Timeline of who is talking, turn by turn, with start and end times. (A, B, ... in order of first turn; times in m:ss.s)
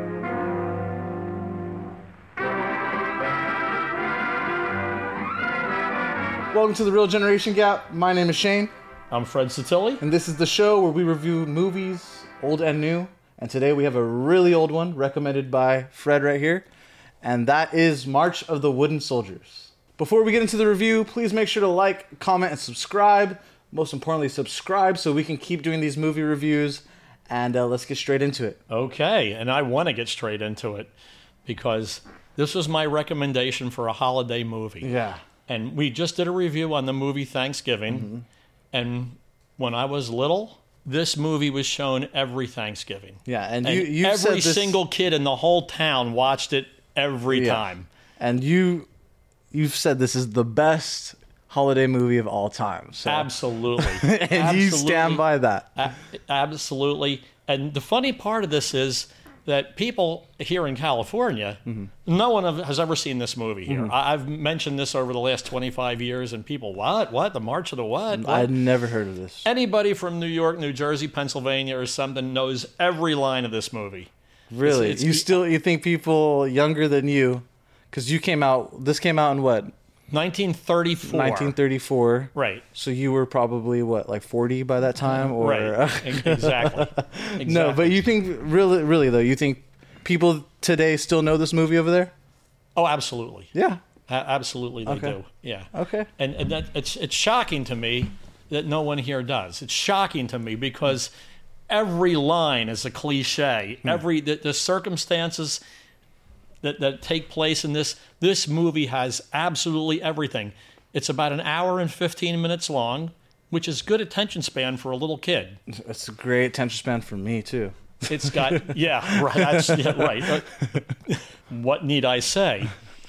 0:06.5-0:08.7 A
0:09.1-0:10.0 B
0:10.0-0:16.7 A
0:17.2-0:28.6 A
0:28.7-0:30.9 B
0:31.5-0:34.9 B
0:34.8-0:35.2 A
0:35.5-0:38.1 B
0:37.9-0:38.2 A
0:38.7-0:47.9 B
0:43.3-0:44.8 A
0:47.3-0:47.7 A
0:48.2-0:48.9 A
0:49.5-0:55.8 A
0:53.0-1:08.5 B
1:03.7-1:03.9 A
1:08.1-1:09.5 A
1:09.4-1:14.1 B
1:14.5-1:19.7 A
1:14.6-1:15.3 B
1:20.1-1:21.6 B
1:21.0-1:32.1 A
1:22.4-1:22.6 B
1:25.0-1:28.0 B
1:32.8-1:33.5 B
1:33.6-1:33.8 A
1:34.1-1:41.1 B
1:34.8-1:35.2 A
1:35.7-1:36.1 A
1:41.7-1:45.6 B
1:46.6-1:55.6 B
1:55.7-2:00.6 A
1:58.1-2:00.6 B
2:01.1-2:02.7 B